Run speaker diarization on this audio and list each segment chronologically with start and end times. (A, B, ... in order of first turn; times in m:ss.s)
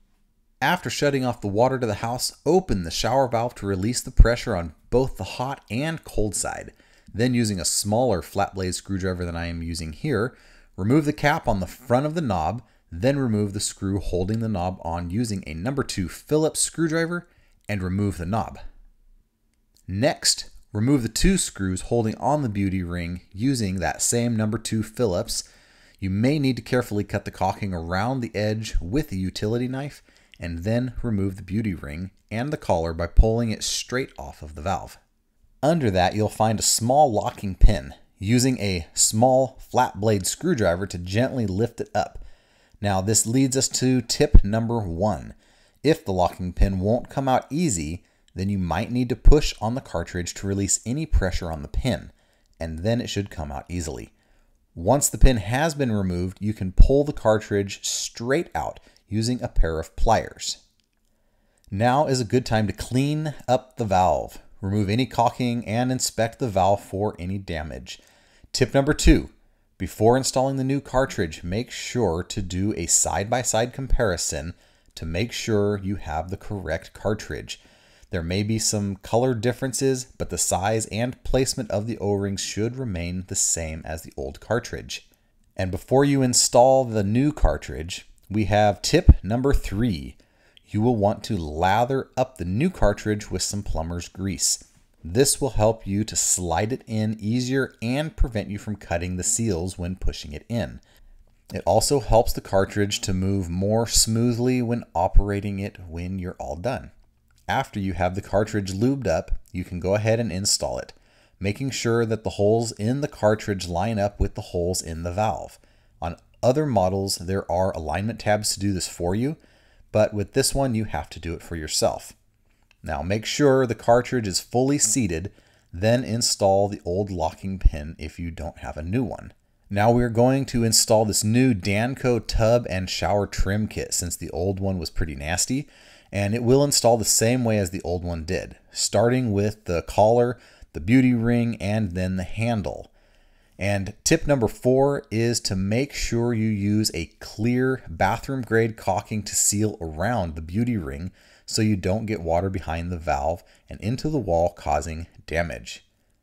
0:00.6-0:18.6 A
0:19.9-0:25.4 A
0:26.0-0:35.0 A
0:35.6-0:42.2 A
0:42.8-0:54.1 A
0:54.7-1:00.6 A
1:01.7-1:08.0 A
1:08.5-1:25.0 A
1:25.6-1:40.8 A
1:41.5-1:46.9 A
1:47.5-1:59.4 A
1:59.9-2:02.2 A
2:02.8-2:22.9 A
2:23.6-2:35.8 A